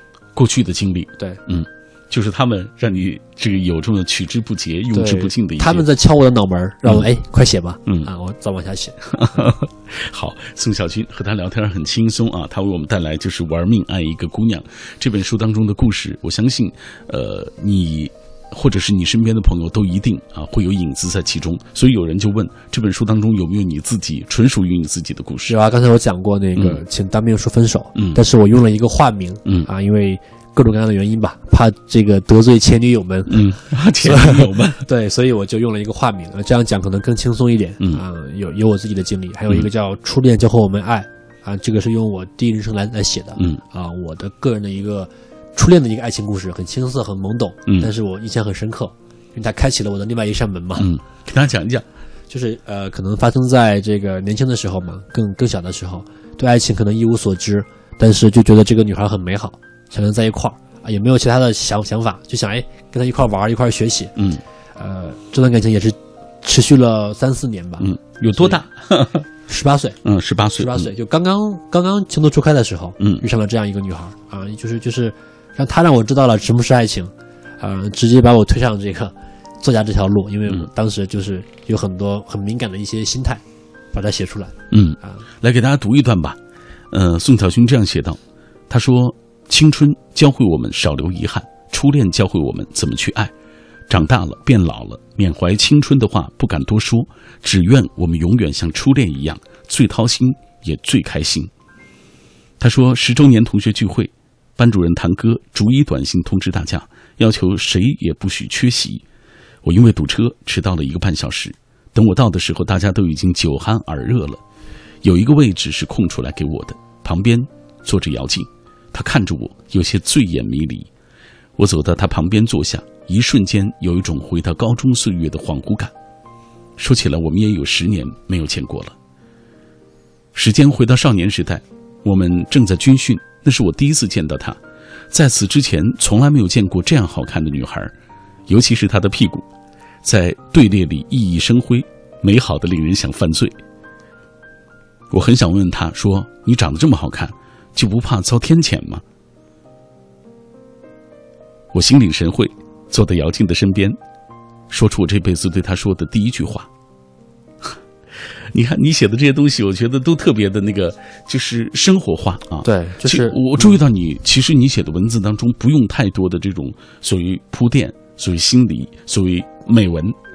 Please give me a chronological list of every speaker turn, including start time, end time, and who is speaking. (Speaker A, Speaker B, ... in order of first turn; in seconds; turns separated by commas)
Speaker A: 0.3-5.8, Speaker B: 4.9-9.0, Speaker A: 9.1-25.6, Speaker B: 25.5-50.9, Speaker A: 27.9-28.2, Speaker A: 33.3-34.8, Speaker A: 50.8-51.8, Speaker B: 52.3-64.1, Speaker A: 64.2-64.4, Speaker B: 64.8-68.6, Speaker A: 67.8-69.2, Speaker B: 69.5-70.0, Speaker A: 70.0-70.9, Speaker B: 70.6-85.2, Speaker A: 84.7-86.4, Speaker A: 86.9-88.2, Speaker A: 88.7-93.3, Speaker A: 93.9-101.5, Speaker A: 102.6-109.0, Speaker A: 109.6-114.4, Speaker A: 115.0-120.9, Speaker A: 121.6-125.9, Speaker A: 126.8-128.9, Speaker A: 130.3-134.6, Speaker A: 135.1-137.9, Speaker A: 138.5-139.4, Speaker A: 140.0-143.6, Speaker A: 145.1-149.0, Speaker A: 151.7-154.0, Speaker A: 154.7-156.7, Speaker A: 158.5-170.1, Speaker B: 162.6-163.7